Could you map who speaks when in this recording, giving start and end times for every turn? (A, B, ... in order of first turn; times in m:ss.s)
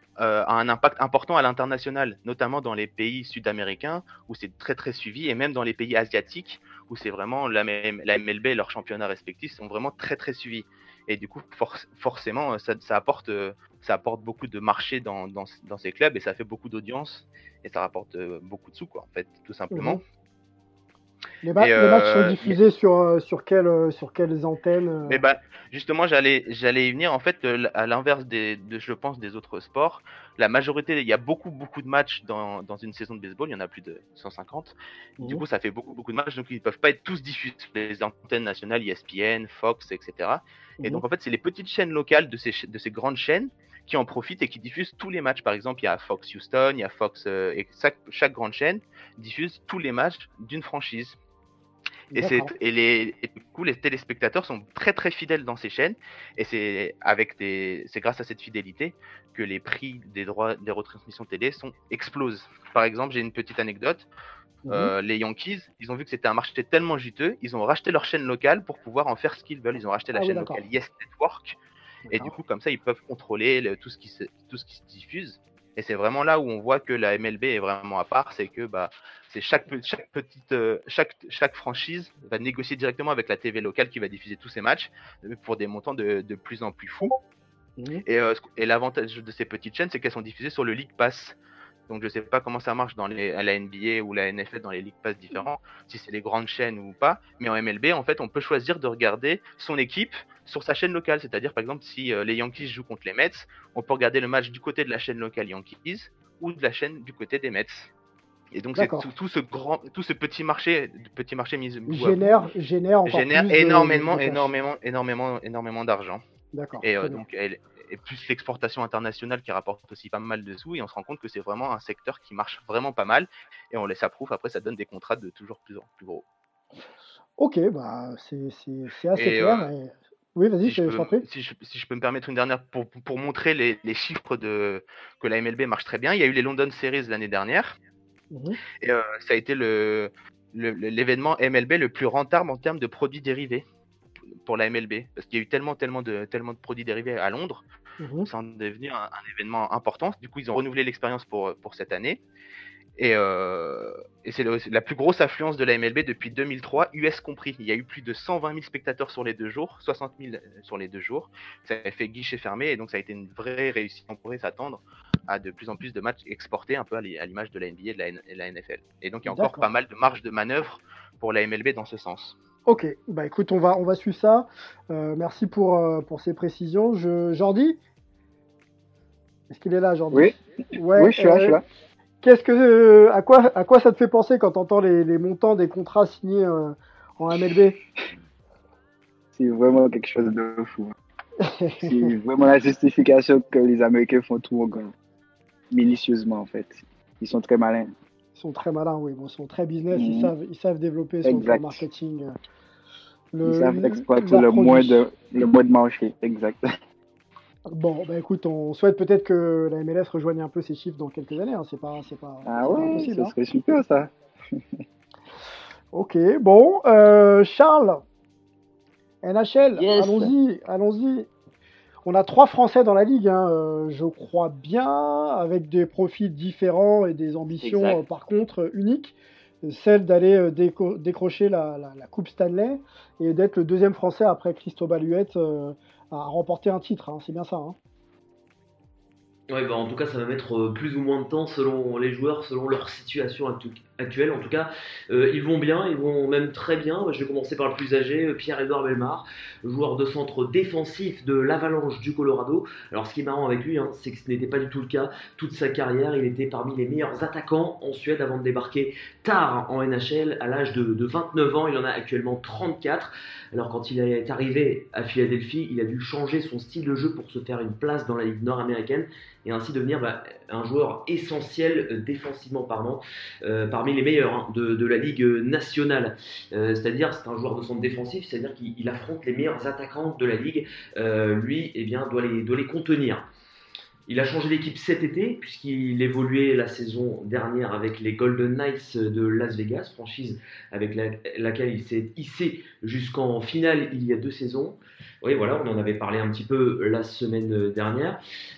0:00.2-0:20.0 A
0:19.7-0:20.0 B
0:21.4-0:25.2 B
0:21.6-0:22.6 A
0:25.1-0:51.2 A
0:52.1-0:52.5 B
0:52.1-1:04.1 A
1:04.7-1:04.9 B
1:04.7-1:11.6 A
1:10.1-1:10.6 B
1:12.1-1:12.3 B
1:12.1-1:27.2 A
1:27.8-1:28.0 B
1:28.0-1:31.4 A
1:31.9-1:47.9 A
1:48.5-1:52.4 A
1:48.8-1:49.1 B
1:51.9-1:54.5 B
1:53.1-1:56.2 A
1:56.5-1:57.2 B
1:56.8-2:06.2 A
2:07.4-2:11.2 B
2:09.2-2:09.7 A
2:10.6-2:17.8 A
2:18.3-2:18.6 B
2:18.8-2:23.6 A
2:24.4-2:27.6 A
2:28.0-2:28.3 B
2:28.2-2:32.2 A
2:33.0-2:52.4 A
2:49.3-2:49.7 B
2:52.7-2:57.8 B
2:59.5-3:01.6 B
3:00.9-3:01.6 C
3:02.2-3:07.8 B
3:09.3-3:11.0 C
3:11.4-3:12.1 B
3:11.8-3:14.9 C
3:15.7-3:17.9 C
3:18.4-3:22.3 B
3:19.9-3:20.3 C
3:21.2-3:21.8 C
3:23.3-3:25.0 B
3:23.4-3:26.6 C
3:27.7-3:33.3 B
3:32.5-3:34.1 C
3:35.9-3:38.0 B
3:39.2-3:41.3 B
3:39.8-3:40.3 D
3:42.0-3:57.8 B
3:47.6-3:48.0 D
3:59.5-4:43.3 D
4:44.1-4:58.2 D